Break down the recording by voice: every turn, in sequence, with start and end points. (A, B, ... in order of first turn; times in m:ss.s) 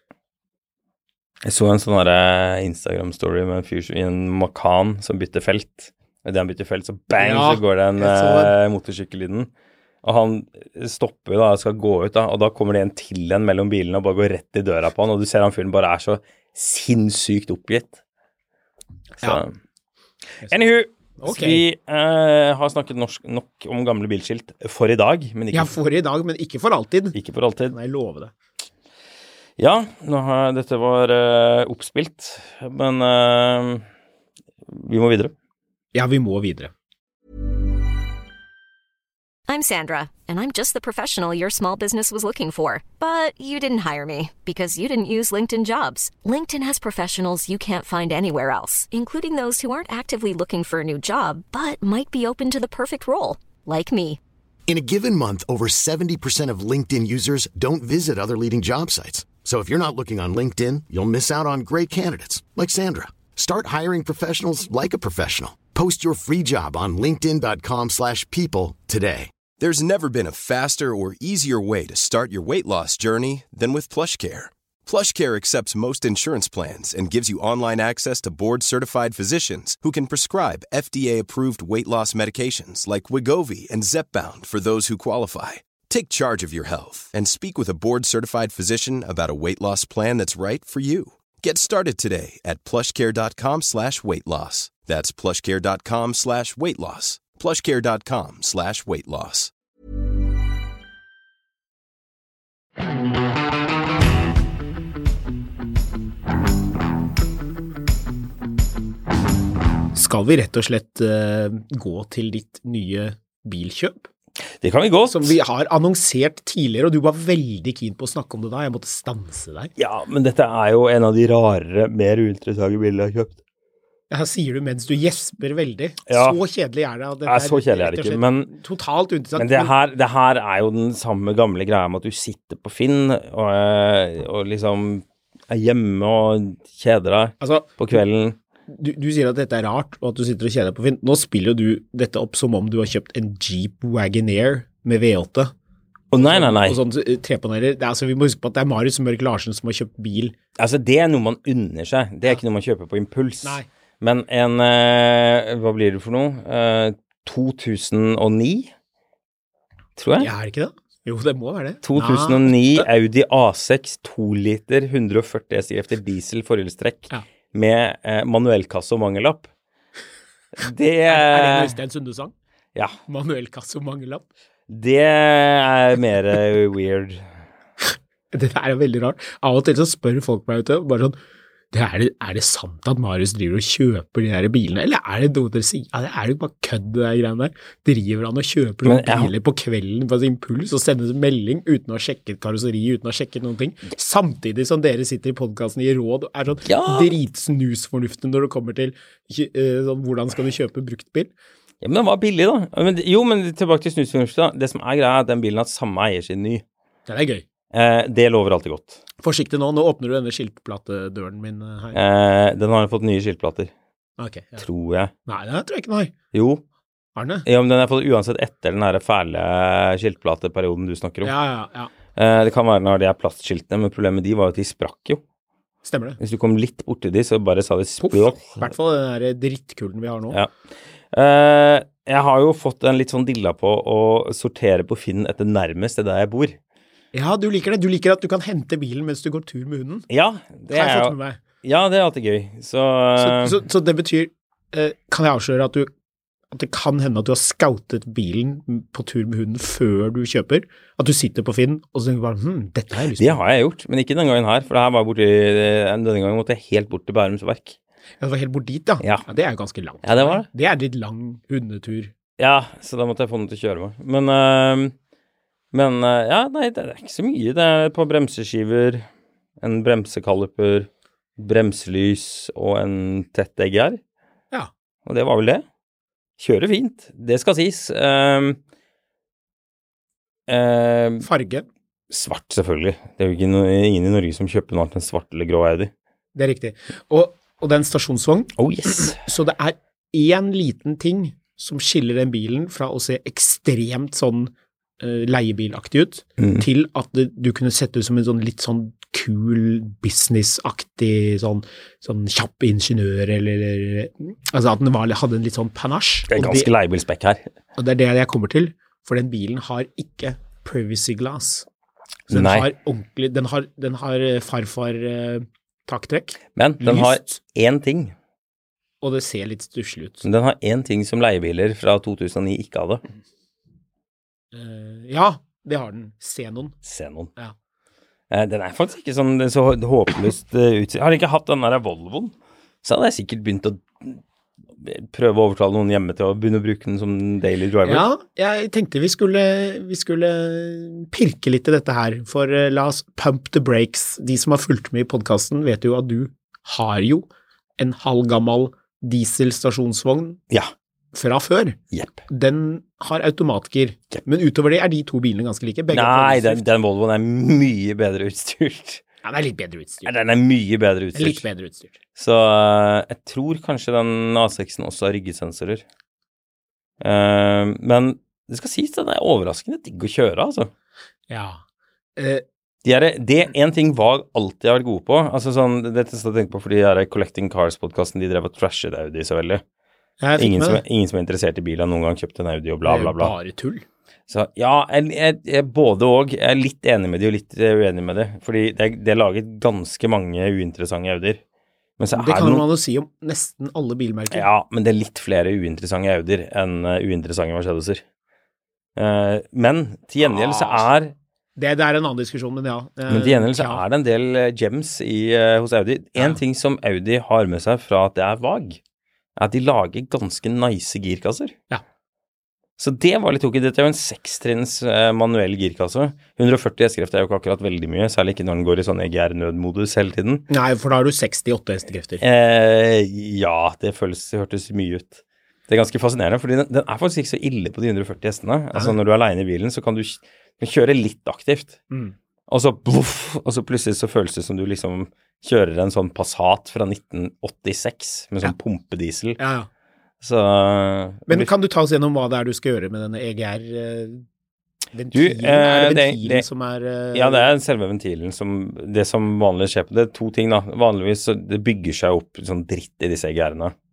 0:01.4-0:09.5 A
0:07.2-0:08.5 B
0:10.0-0:18.0 A
0:19.2-0:19.5 A
0:20.5-0:25.7 A
0:21.2-0:21.6 B
0:25.5-0:27.2 B
0:27.1-0:27.7 A
0:27.7-0:28.3 B
0:29.6-0:33.8 A
0:34.7-0:35.3 A
0:35.9-0:36.7 B
0:39.5-0:54.2 C
0:54.7-1:09.3 D
1:09.6-1:39.5 E
1:49.9-1:54.1 B
1:54.6-1:55.3 A
1:55.1-1:59.7 B
1:59.8-2:03.4 A
2:04.1-2:09.7 B
2:06.1-2:06.4 A
2:07.2-2:08.5 A
2:09.4-2:18.4 A
2:17.4-2:18.0 B
2:18.7-2:25.5 B
2:26.1-2:26.8 A
2:26.2-2:30.3 B
2:30.6-2:38.7 A
2:40.0-2:40.3 A
2:40.2-2:42.8 B
2:41.8-2:49.5 A
2:50.6-2:51.8 A
2:51.1-2:52.3 B
2:53.1-2:54.3 B
2:54.7-2:57.2 A
2:58.3-3:01.2 B
3:01.7-3:21.3 B
3:08.8-3:09.3 A
3:16.6-3:17.1 A
3:21.8-3:26.6 A
3:27.1-3:27.4 B
3:27.7-3:29.0 A
3:29.2-3:32.0 B
3:31.9-3:33.7 A
3:34.2-3:34.6 B
3:34.6-3:35.1 A
3:35.3-3:36.1 B
3:36.3-3:36.6 A
3:37.2-3:37.4 B
3:37.4-3:41.3 A
3:41.2-3:41.9 B
3:42.1-3:45.2 A
3:45.8-3:46.2 B
3:46.2-3:48.7 A
3:48.0-3:50.4 B
3:51.1-3:56.6 A
3:57.1-4:00.1 B
4:00.1-4:03.6 A
4:00.7-4:01.4 B
4:03.2-4:05.9 B
4:06.5-4:13.4 B
4:13.2-4:17.8 A
4:18.2-4:22.1 B
4:20.0-4:20.5 A
4:22.4-4:24.9 A
4:25.7-4:29.0 A
4:29.6-4:34.0 A
4:35.0-4:35.6 A
4:36.4-4:38.6 A
4:40.5-4:41.3 A
4:41.2-4:41.6 B
4:42.1-4:45.9 A
4:46.3-5:06.7 B
4:48.6-4:49.2 A
4:56.4-4:56.6 A
5:06.3-5:07.5 A
5:07.8-5:11.6 B
5:12.3-5:12.7 A
5:12.3-5:17.4 B
5:16.6-5:18.1 A
5:19.0-5:20.2 B
5:20.2-5:23.0 A
5:24.5-5:26.7 B
5:26.8-5:27.3 A
5:28.3-5:34.2 A
5:34.8-5:38.0 A
5:37.8-5:50.4 B
5:51.1-5:51.8 B
5:51.9-5:52.2 A
5:52.3-5:56.6 B
5:55.9-5:59.0 A
5:59.2-6:00.1 B
6:00.0-6:01.4 A
6:01.1-6:01.9 B
6:02.2-6:05.8 A
6:07.0-6:10.7 A
6:11.3-6:11.6 B
6:12.2-6:12.4 B
6:12.8-6:19.6 A
6:20.2-6:20.8 B
6:20.4-6:23.3 A
6:22.8-6:23.8 B
6:24.3-6:31.4 A
6:32.0-6:32.6 A
6:32.1-6:34.5 B
6:34.3-6:38.0 A
6:39.0-6:41.1 A
6:40.2-6:40.9 B
6:41.6-6:43.8 B
6:43.1-6:48.8 A
6:49.4-6:51.5 A
6:52.8-7:00.5 A
7:00.5-7:02.2 B
7:02.2-7:11.8 A
7:12.5-7:19.4 A
7:19.4-7:19.7 B
7:20.2-7:21.5 A
7:21.3-7:24.2 B
7:24.9-7:27.5 B
7:25.1-7:26.4 A
7:27.1-7:33.7 A